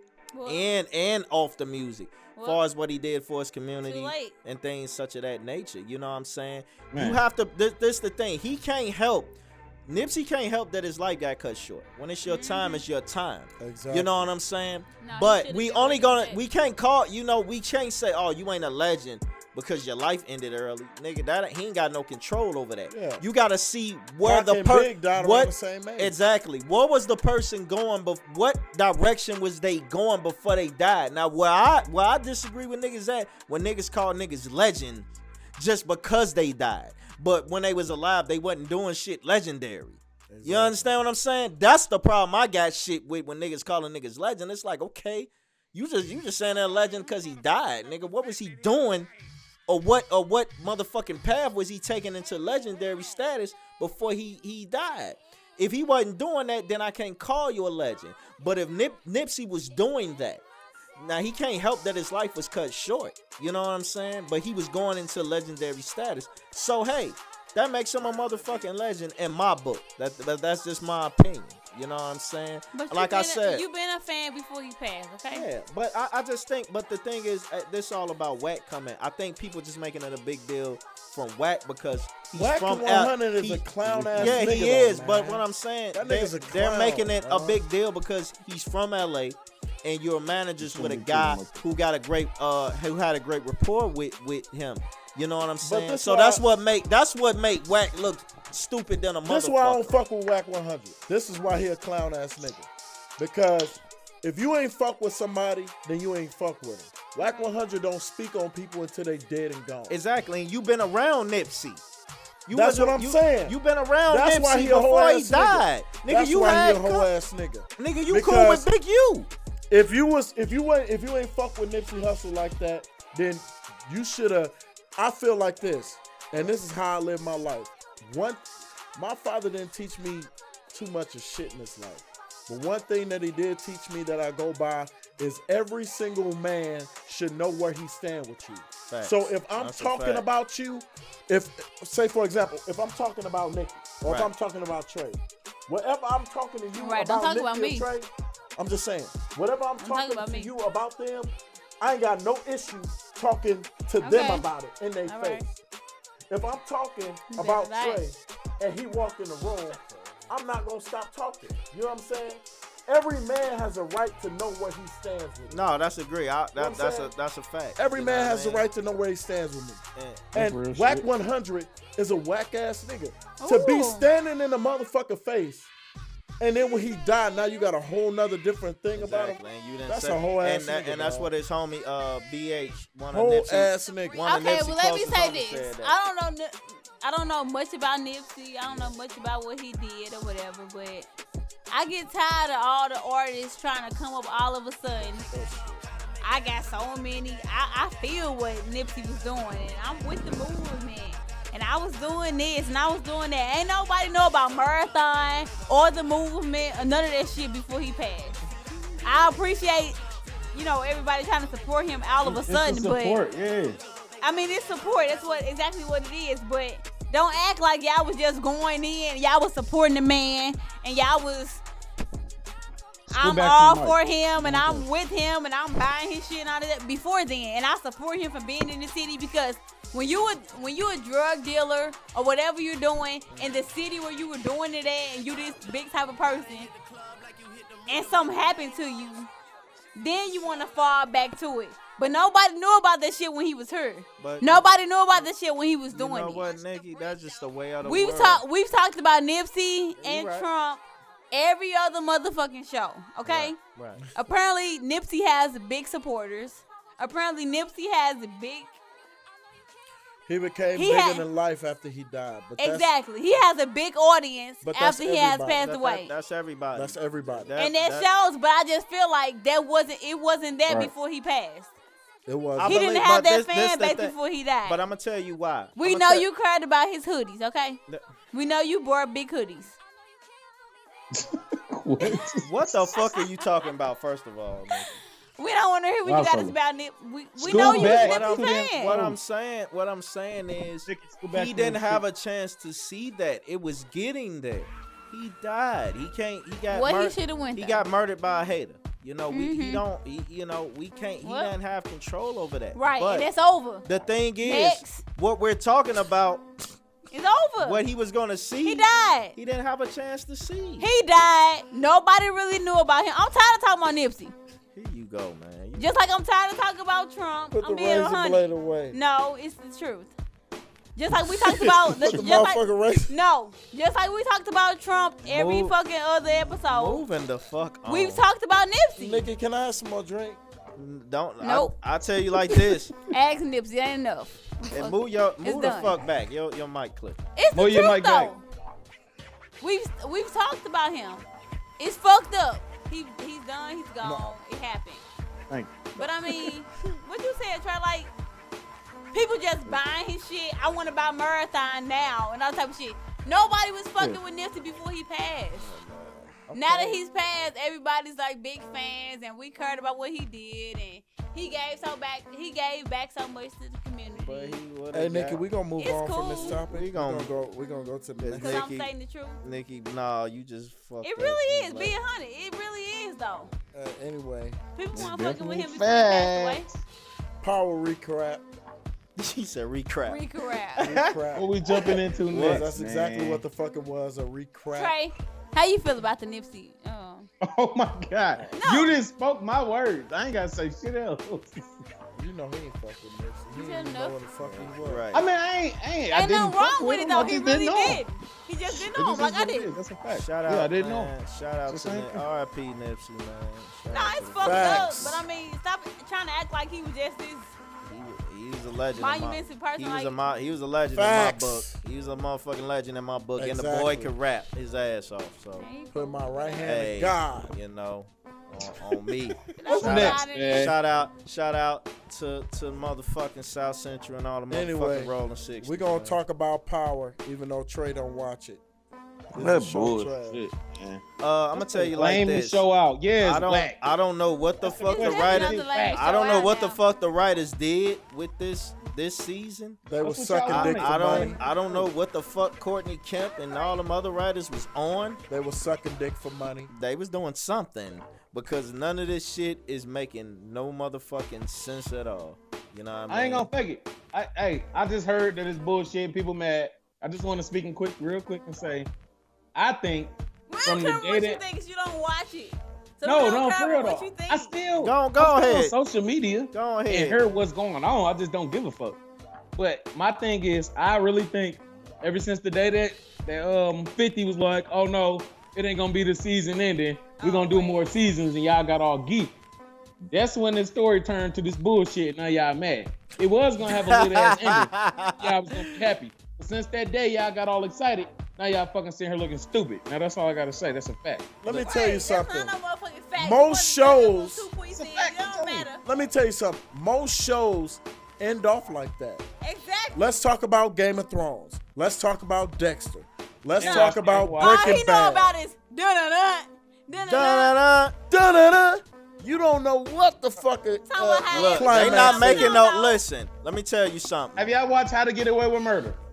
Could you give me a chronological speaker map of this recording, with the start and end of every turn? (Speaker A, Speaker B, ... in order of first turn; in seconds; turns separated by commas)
Speaker A: 0.3-0.8, Speaker B: 0.5-49.1, Speaker A: 2.3-2.6, Speaker A: 3.8-4.3, Speaker C: 6.9-7.2, Speaker A: 12.2-12.8, Speaker D: 13.6-14.3, Speaker A: 15.0-16.4, Speaker D: 22.9-23.2, Speaker D: 24.2-26.2, Speaker D: 40.3-40.9, Speaker B: 49.7-60.4, Speaker B: 61.0-73.6, Speaker A: 72.7-75.5, Speaker B: 75.3-100.0, Speaker D: 82.3-87.6, Speaker C: 83.9-84.5, Speaker C: 90.6-91.6, Speaker D: 95.6-96.4, Speaker D: 99.2-110.0, Speaker B: 109.9-111.8, Speaker B: 112.5-117.1, Speaker D: 112.5-118.7, Speaker B: 117.8-119.3, Speaker D: 119.7-155.6, Speaker B: 138.9-140.2, Speaker B: 144.1-144.3, Speaker A: 146.7-147.9, Speaker A: 149.8-150.5, Speaker A: 154.0-154.4, Speaker A: 155.1-155.4, Speaker D: 156.3-165.7, Speaker A: 157.3-158.0, Speaker B: 165.5-168.6, Speaker D: 166.6-167.1, Speaker D: 167.8-169.8, Speaker B: 169.9-170.3, Speaker C: 170.3-171.1, Speaker D: 170.3-175.7, Speaker A: 173.4-174.1, Speaker D: 176.4-181.3, Speaker B: 178.9-185.9, Speaker D: 183.1-184.2, Speaker A: 184.2-191.1, Speaker A: 191.7-195.3, Speaker D: 195.0-195.9, Speaker A: 196.2-208.4, Speaker A: 209.0-210.0, Speaker A: 210.5-213.2, Speaker C: 212.2-213.8, Speaker A: 214.2-221.6, Speaker A: 223.1-236.7, Speaker C: 223.1-224.9, Speaker A: 237.9-239.3, Speaker A: 239.9-246.5, Speaker B: 244.2-244.6, Speaker B: 245.9-248.4, Speaker A: 247.8-253.6, Speaker B: 250.0-250.5, Speaker B: 253.2-254.1, Speaker A: 254.1-258.8, Speaker D: 260.3-262.9, Speaker A: 260.7-261.2, Speaker A: 262.6-266.1, Speaker D: 264.6-265.6, Speaker B: 265.6-268.1, Speaker D: 266.7-267.5, Speaker A: 267.6-271.7, Speaker D: 272.3-272.8, Speaker B: 272.6-276.2, Speaker A: 272.6-274.8, Speaker A: 275.8-277.8, Speaker A: 278.3-279.8, Speaker C: 281.1-282.8, Speaker B: 282.4-284.9, Speaker A: 282.9-283.4, Speaker A: 285.4-289.0, Speaker C: 286.0-286.5, Speaker C: 287.4-289.2, Speaker B: 287.4-303.3, Speaker C: 290.9-292.0, Speaker A: 296.7-297.8, Speaker A: 299.3-299.8, Speaker A: 301.2-301.5, Speaker A: 302.7-303.8, Speaker B: 303.8-306.5, Speaker A: 304.4-305.0, Speaker A: 307.1-307.8, Speaker B: 307.6-310.9, Speaker A: 308.6-309.4, Speaker A: 310.8-314.3, Speaker B: 314.7-315.9, Speaker A: 315.8-320.1, Speaker D: 317.5-319.0, Speaker A: 320.9-327.0, Speaker D: 322.0-323.1, Speaker B: 325.2-325.7, Speaker B: 326.6-328.2, Speaker A: 327.9-329.3, Speaker D: 329.0-330.4, Speaker B: 330.8-332.9, Speaker A: 331.4-331.7, Speaker A: 333.1-336.0, Speaker B: 334.7-337.2, Speaker A: 337.4-338.4, Speaker C: 337.5-338.3, Speaker A: 339.6-341.2, Speaker A: 341.8-345.0, Speaker D: 344.0-344.3, Speaker C: 345.5-346.5, Speaker A: 345.9-348.1, Speaker A: 349.1-355.7, Speaker B: 355.6-357.0, Speaker A: 356.5-364.6, Speaker B: 364.1-365.4, Speaker D: 364.9-368.6, Speaker A: 365.8-366.6, Speaker B: 366.3-367.3, Speaker B: 368.2-368.9, Speaker A: 368.4-369.4, Speaker B: 369.4-371.9, Speaker A: 371.0-373.5, Speaker D: 373.7-374.6, Speaker A: 374.8-376.7, Speaker C: 374.9-376.8, Speaker D: 377.4-378.4, Speaker B: 379.2-380.2, Speaker A: 380.1-380.9, Speaker B: 380.8-382.7, Speaker D: 380.8-381.6, Speaker C: 381.3-383.4, Speaker D: 382.3-384.9, Speaker A: 384.7-387.3, Speaker C: 387.4-391.7, Speaker A: 388.5-389.0, Speaker D: 392.1-395.0, Speaker A: 393.5-394.2, Speaker B: 394.4-395.3, Speaker C: 395.1-398.0, Speaker A: 396.1-399.7, Speaker C: 398.7-401.1, Speaker B: 400.1-405.1, Speaker C: 401.7-402.2, Speaker A: 403.9-407.5, Speaker D: 404.4-405.2, Speaker B: 407.8-415.7, Speaker A: 409.0-410.2, Speaker D: 410.9-411.7, Speaker D: 413.4-414.1, Speaker A: 415.5-416.7, Speaker D: 415.9-417.6, Speaker B: 416.6-426.2, Speaker A: 419.6-420.7, Speaker C: 419.6-420.7, Speaker D: 424.5-428.6, Speaker D: 429.3-430.4, Speaker C: 429.3-431.0, Speaker B: 431.2-432.6, Speaker C: 431.5-433.8, Speaker B: 433.2-439.8, Speaker C: 434.6-436.0, Speaker A: 434.8-436.8, Speaker D: 439.9-441.4, Speaker C: 440.0-441.9, Speaker B: 440.5-445.2, Speaker A: 443.2-443.8, Speaker D: 445.3-446.7, Speaker B: 446.7-453.5, Speaker C: 453.1-458.9, Speaker C: 459.5-461.4, Speaker A: 460.5-464.5, Speaker C: 463.0-469.0, Speaker B: 464.8-465.7, Speaker B: 466.5-467.2, Speaker C: 469.6-479.4, Speaker A: 477.2-477.9, Speaker C: 480.1-491.4, Speaker B: 483.6-485.8, Speaker D: 491.4-492.6, Speaker A: 491.5-495.8, Speaker D: 493.2-494.5, Speaker C: 494.7-495.7, Speaker D: 495.8-499.2, Speaker A: 499.4-500.1, Speaker D: 499.9-505.3, Speaker C: 503.6-504.8, Speaker A: 503.6-507.6, Speaker B: 506.9-507.9, Speaker D: 508.1-512.6, Speaker A: 510.9-513.0, Speaker B: 511.3-514.5, Speaker C: 514.4-516.0